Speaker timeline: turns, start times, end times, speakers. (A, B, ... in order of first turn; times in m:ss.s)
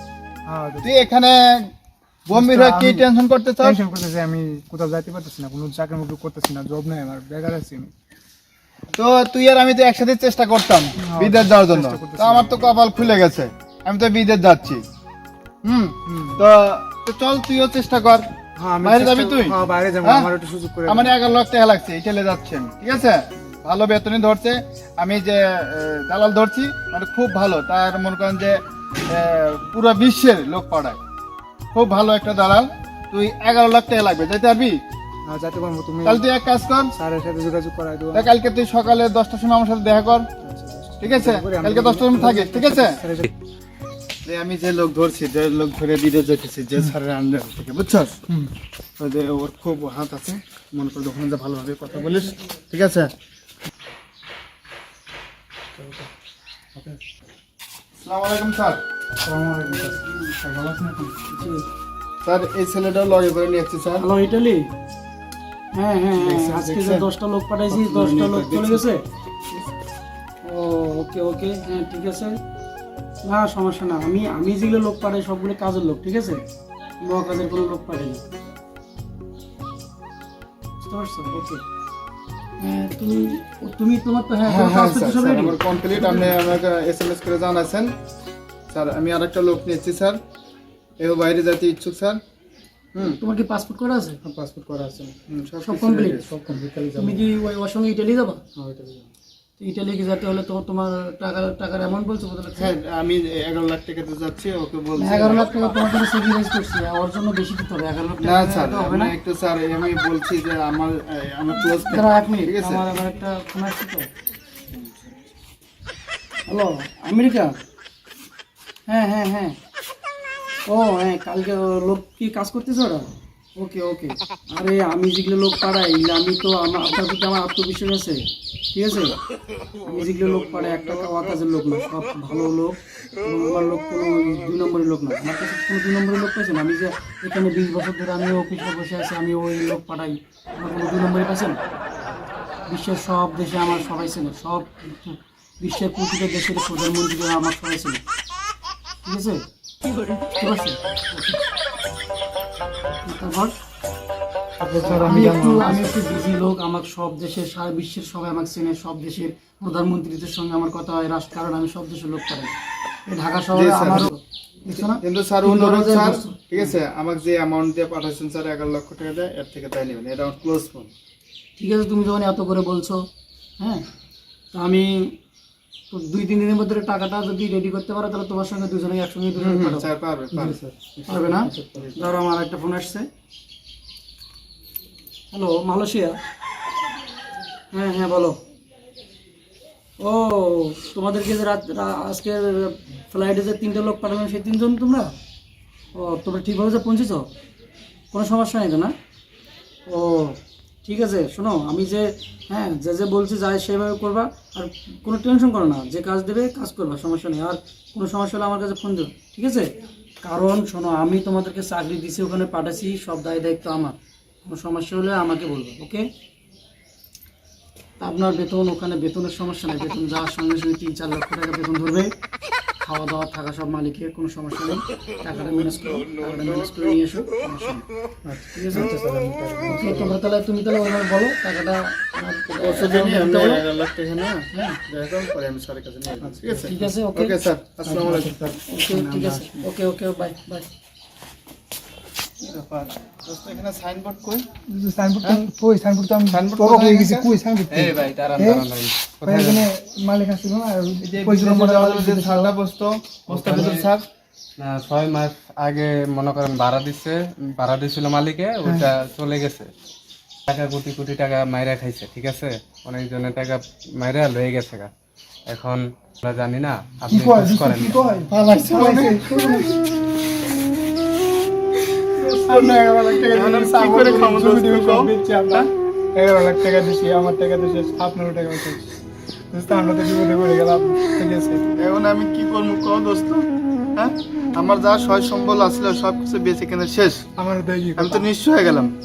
0:00.5-0:00.9 A
0:00.8-0:01.7 B
0:02.3-0:03.8 B
0:02.3-0:03.0 A
0:03.6-0:07.9 A
0:08.9-0:14.8 B
0:11.0-0:12.8 A
0:15.6-0:18.2 B
0:16.0-0:16.4 A
0:18.6-0:21.2 A
0:18.8-0:20.3 B
0:20.9-0:31.0 B
0:31.7-0:34.8 B
0:35.3-0:36.2 A
0:36.0-0:36.9 B
0:36.9-0:38.3 A
0:38.1-0:40.3 B
0:40.4-0:43.3 A
0:41.0-0:43.0 B
0:44.2-0:48.2 B
0:49.0-0:53.1 B
0:55.8-0:56.1 A
0:58.0-0:58.8 B
0:59.2-1:01.2 A
0:59.8-1:00.2 C
1:01.3-1:01.6 C
1:02.2-1:04.0 B
1:04.0-1:04.7 C
1:05.7-1:09.0 C
1:06.2-1:07.1 B
1:07.7-1:08.8 B
1:10.4-1:12.4 C
1:13.2-1:16.4 C
1:17.0-1:18.2 C
1:20.8-1:21.6 C
1:22.6-1:26.4 C
1:24.4-1:27.9 B
1:28.7-1:30.2 B
1:31.0-1:32.2 B
1:33.0-1:34.2 C
1:34.2-1:35.2 A
1:35.3-1:36.2 B
1:35.6-1:36.2 C
1:36.2-1:37.2 A
1:37.0-1:38.4 C
1:38.6-1:39.1 A
1:39.6-1:42.7 C
1:42.6-1:45.6 B
1:45.0-1:49.1 C
1:48.2-1:52.8 B
1:51.6-1:54.1 C
1:56.5-1:57.6 C
1:58.9-1:59.6 C
2:00.7-2:03.0 C
2:03.6-2:09.2 C
2:09.8-2:21.6 C
2:22.7-2:28.0 C
2:29.0-2:29.4 C
2:30.4-2:31.4 C
2:33.0-2:33.5 C
2:34.6-2:35.9 A
2:34.9-2:42.5 C
2:43.1-2:46.7 C
2:43.5-2:44.1 B
2:44.9-2:50.9 B
2:51.6-2:53.0 C
2:53.6-2:53.8 C
2:54.5-2:55.2 C
2:55.9-2:59.9 C
2:59.4-3:00.6 B
3:00.3-3:01.9 A
3:01.1-3:03.1 C
3:01.7-3:02.1 B
3:05.3-3:06.2 C
3:07.7-3:08.4 C
3:10.0-3:15.1 C
3:15.9-3:17.3 C
3:18.1-3:18.9 C
3:19.9-3:29.7 C
3:30.2-3:36.0 C
3:38.0-3:42.1 C
3:42.8-3:47.8 C
3:48.2-3:50.1 A
3:48.5-3:48.9 C
3:49.6-3:53.6 C
3:52.6-3:58.4 B
3:54.5-3:54.8 C
3:56.2-3:56.7 A
3:56.6-3:57.4 C
3:57.8-3:59.7 A
3:58.7-4:00.7 C
4:02.4-4:04.4 B
4:04.7-4:08.6 A
4:06.3-4:07.3 B
4:07.7-4:09.6 D
4:09.2-4:12.6 A
4:11.0-4:14.0 B
4:13.3-4:13.9 D
4:14.6-4:19.7 D
4:20.5-4:24.9 D
4:25.5-4:28.1 D
4:27.1-4:29.7 A
4:28.4-4:29.6 B
4:32.2-4:35.7 B
4:32.2-4:38.9 A
4:39.5-4:41.6 A
4:41.8-4:43.4 B
4:44.0-4:47.2 B
4:47.4-4:48.3 A
4:48.0-4:48.9 B